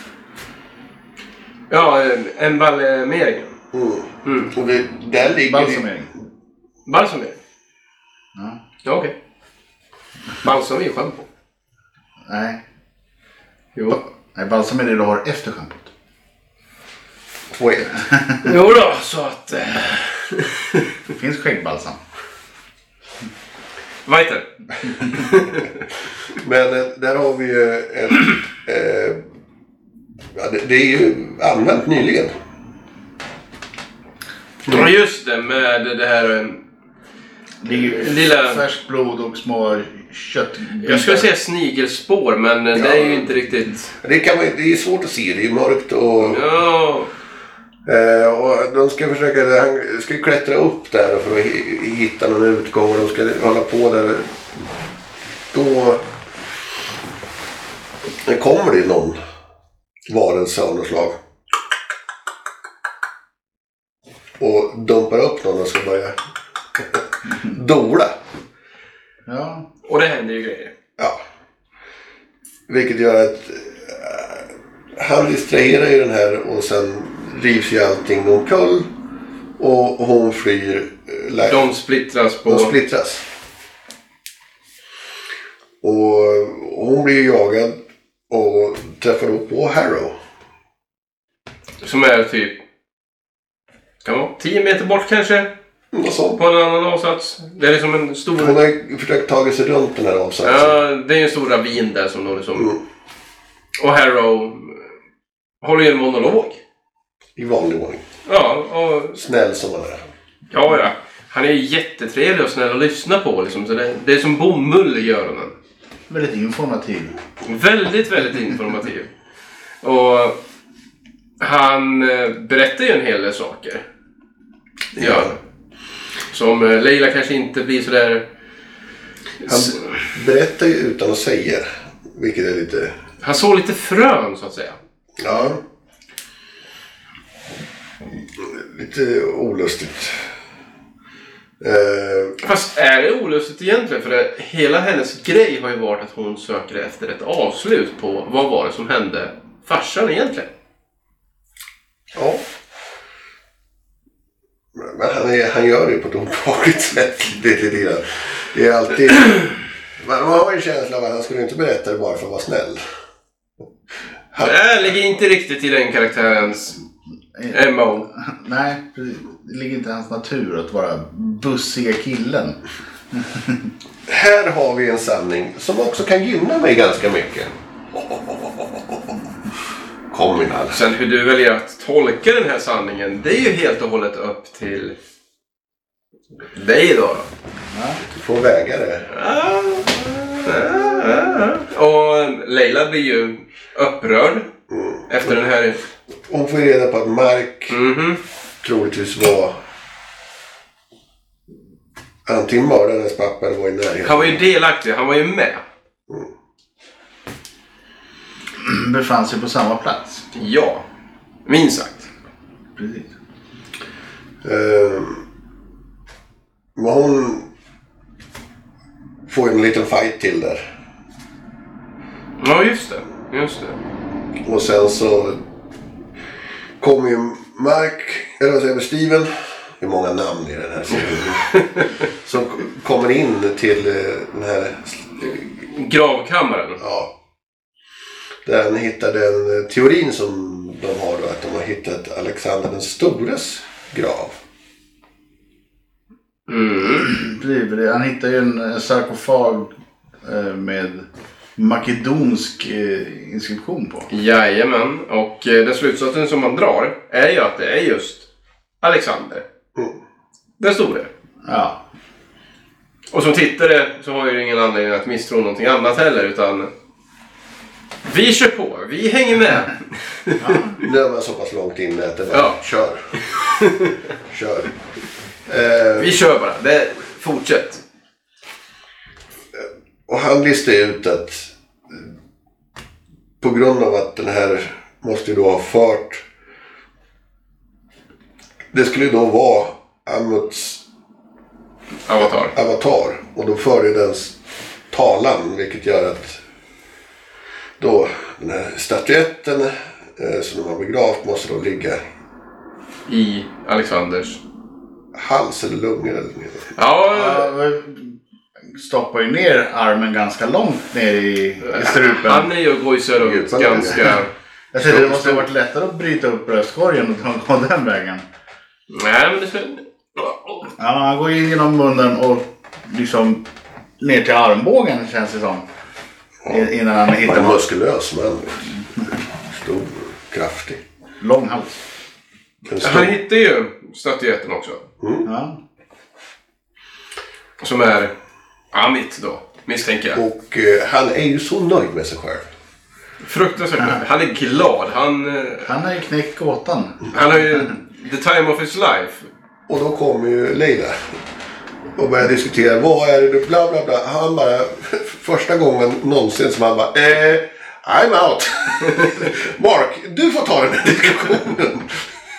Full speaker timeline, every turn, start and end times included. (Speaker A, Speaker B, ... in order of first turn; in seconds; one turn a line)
Speaker A: 1.7-3.5
Speaker B: 3.7-5.8
Speaker A: 4.2-4.5
Speaker C: 5.2-6.1
Speaker A: 6.8-7.4
Speaker A: 8.8-9.1
Speaker A: 10.4-11.2
Speaker C: 12.3-12.6
Speaker C: 14.3-15.9
Speaker B: 17.5-18.0
Speaker A: 18.4-20.8
Speaker C: 21.1-22.0
Speaker A: 24.1-25.7
Speaker B: 26.3-29.2
Speaker B: 30.3-32.3
Speaker A: 34.6-36.6
Speaker C: 37.6-41.3
Speaker A: 37.7-38.6
Speaker A: 40.8-43.9
Speaker B: 42.7-43.3
Speaker B: 44.0-46.4
Speaker A: 46.2-47.1
Speaker B: 47.9-54.3
Speaker B: 55.5-56.0
Speaker B: 58.2-59.2
Speaker B: 60.1-61.2
Speaker B: 64.4-66.2
Speaker B: 66.8-68.2
Speaker C: 69.3-69.7
Speaker A: 69.8-70.7
Speaker B: 72.7-78.9
Speaker B: 79.6-81.6
Speaker A: 81.5-82.7
Speaker B: 82.5-83.2
Speaker B: 85.8-90.1
Speaker A: 91.8-92.6
Speaker A: 94.0-95.5
Speaker B: 95.9-96.4
Speaker A: 96.3-98.6
Speaker B: 98.4-100.8
Speaker A: 100.4-102.7
Speaker A: 103.8-104.8
Speaker A: 105.6-106.6
Speaker B: 107.3-108.0
Speaker A: 108.2-109.2
Speaker B: 109.2-110.0
Speaker A: 110.5-115.5
Speaker C: 116.1-117.1
Speaker A: 117.4-119.1
Speaker A: 119.8-120.4
Speaker A: 121.4-123.8
Speaker B: 125.0-125.3
Speaker A: 125.0-125.4
Speaker A: 126.3-128.2
Speaker A: 129.4-129.9
Speaker B: 129.4-132.9
Speaker A: 133.2-134.8
Speaker B: 135.2-135.6
Speaker B: 138.3-140.2
Speaker B: 141.6-142.4
Speaker A: 142.4-150.5
Speaker B: 152.1-152.4
Speaker B: 154.7-162.9
Speaker B: 164.3-164.6
Speaker A: 164.4-166.8
Speaker A: 167.5-168.1
Speaker C: 168.2-172.6
Speaker C: 173.1-173.7
Speaker B: 174.1-179.2
Speaker B: 180.1-180.8
Speaker A: 180.7-184.9
Speaker A: 186.5-187.3
Speaker C: 187.7-188.0
Speaker B: 188.1-189.1
Speaker A: 189.1-194.5
Speaker B: 194.7-195.3
Speaker A: 195.1-195.8
Speaker B: 196.3-197.8
Speaker A: 197.7-198.2
Speaker B: 198.6-199.6
Speaker B: 202.2-204.4
Speaker A: 204.0-205.6
Speaker C: 208.6-210.2
Speaker A: 210.3-210.8
Speaker A: 211.4-212.1
Speaker C: 212.8-213.1
Speaker B: 214.4-215.2
Speaker B: 216.8-217.4
Speaker B: 219.3-220.6
Speaker A: 222.4-223.8
Speaker B: 224.4-225.4
Speaker B: 226.8-235.5
Speaker A: 231.5-231.9
Speaker A: 235.7-236.8
Speaker B: 236.8-237.1
Speaker B: 238.4-244.3
Speaker A: 246.5-247.1
Speaker C: 247.1-249.7
Speaker C: 250.2-251.1
Speaker C: 251.6-254.1
Speaker A: 254.1-258.2
Speaker A: 258.8-259.4
Speaker A: 260.6-261.1
Speaker C: 261.4-261.8
Speaker A: 263.1-266.7
Speaker A: 268.1-270.6
Speaker C: 270.4-270.8
Speaker B: 270.8-273.1
Speaker A: 272.3-272.6
Speaker A: 273.2-273.9
Speaker B: 274.3-274.7
Speaker B: 275.5-276.1
Speaker A: 276.0-277.8
Speaker B: 279.5-282.1
Speaker B: 283.4-286.2
Speaker B: 288.7-290.8
Speaker A: 292.1-292.5
Speaker B: 292.5-294.4
Speaker B: 294.9-296.4
Speaker B: 297.8-302.0
Speaker A: 303.1-304.4
Speaker B: 305.1-306.7
Speaker A: 306.7-307.5
Speaker C: 307.1-308.1
Speaker C: 308.7-312.5
Speaker A: 311.6-314.3
Speaker B: 313.2-314.2
Speaker C: 314.7-318.2
Speaker B: 314.7-315.5
Speaker A: 318.9-320.7
Speaker C: 320.8-323.4
Speaker C: 324.0-325.6
Speaker C: 326.5-327.6
Speaker B: 327.2-328.7
Speaker B: 329.4-330.8
Speaker C: 331.2-331.8
Speaker B: 332.6-333.1
Speaker A: 332.8-334.8
Speaker B: 335.0-335.2
Speaker C: 335.2-335.6
Speaker A: 337.6-338.1
Speaker A: 338.7-340.2
Speaker B: 340.1-342.4
Speaker A: 343.2-345.7
Speaker C: 345.6-347.1
Speaker A: 347.1-349.3
Speaker B: 349.7-351.2
Speaker B: 351.9-362.1